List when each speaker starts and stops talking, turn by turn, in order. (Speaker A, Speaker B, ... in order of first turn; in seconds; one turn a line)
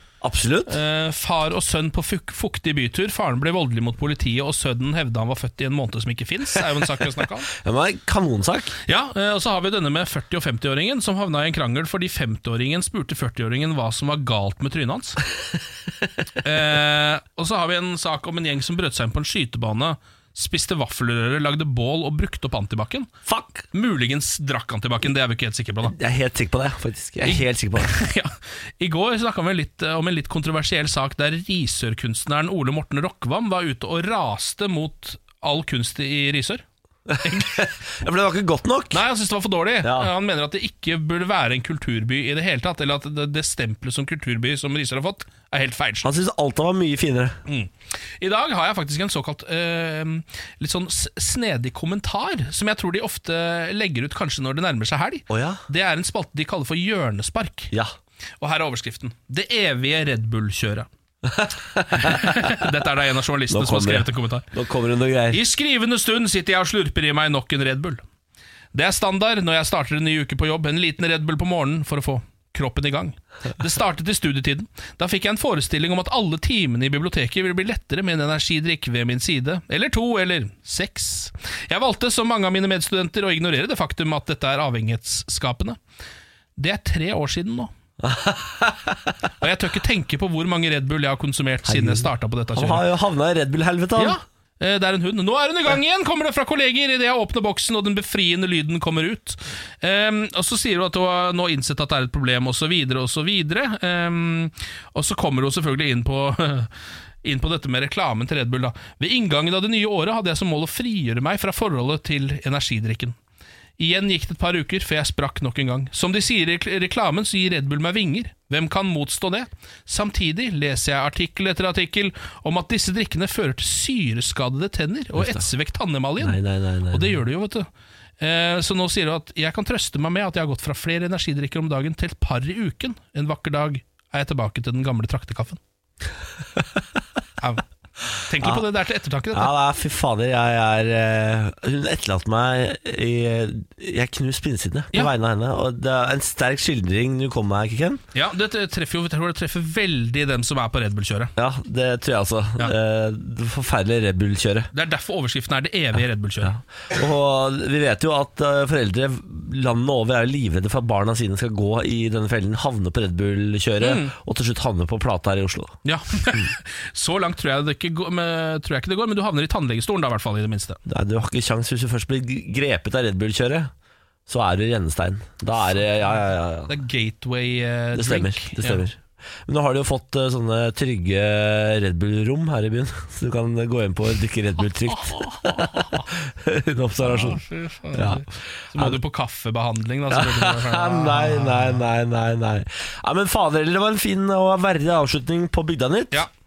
Speaker A: 0.2-0.8
Speaker B: 0.7-7.5
Speaker A: 7.5-8.8
Speaker B: 8.9-15.2
Speaker B: 16.4-23.1
Speaker A: 23.3-23.6
Speaker B: 23.7-25.9
Speaker A: 25.8-27.9
Speaker B: 27.2-36.6
Speaker A: 37.1-39.0
Speaker B: 37.2-37.5
Speaker B: 38.9-46.1
Speaker A: 39.8-40.1
Speaker A: 46.0-47.4
Speaker B: 47.5-57.7
Speaker A: 55.3-55.6
Speaker B: 58.4-60.9
Speaker A: 61.2-62.6
Speaker B: 61.9-64.5
Speaker A: 63.5-65.4
Speaker B: 65.3-68.0
Speaker B: 68.7-85.8
Speaker B: 86.6-87.7
Speaker A: 88.0-89.1
Speaker B: 89.4-92.8
Speaker A: 91.7-94.2
Speaker B: 94.0-106.7
Speaker B: 107.2-113.2
Speaker B: 113.8-126.4
Speaker A: 125.2-125.5
Speaker A: 126.2-127.1
Speaker B: 126.9-127.7
Speaker B: 128.2-135.6
Speaker B: 137.4-137.6
Speaker B: 138.2-139.5
Speaker A: 139.3-148.0
Speaker B: 148.1-151.3
Speaker A: 151.4-154.7
Speaker B: 154.7-156.5
Speaker A: 156.4-165.8
Speaker B: 163.8-164.1
Speaker B: 165.8-170.8
Speaker A: 170.9-173.7
Speaker A: 174.3-176.7
Speaker B: 176.7-178.8
Speaker A: 177.9-187.4
Speaker B: 184.9-186.1
Speaker B: 187.0-191.8
Speaker A: 187.9-189.0
Speaker A: 190.1-196.3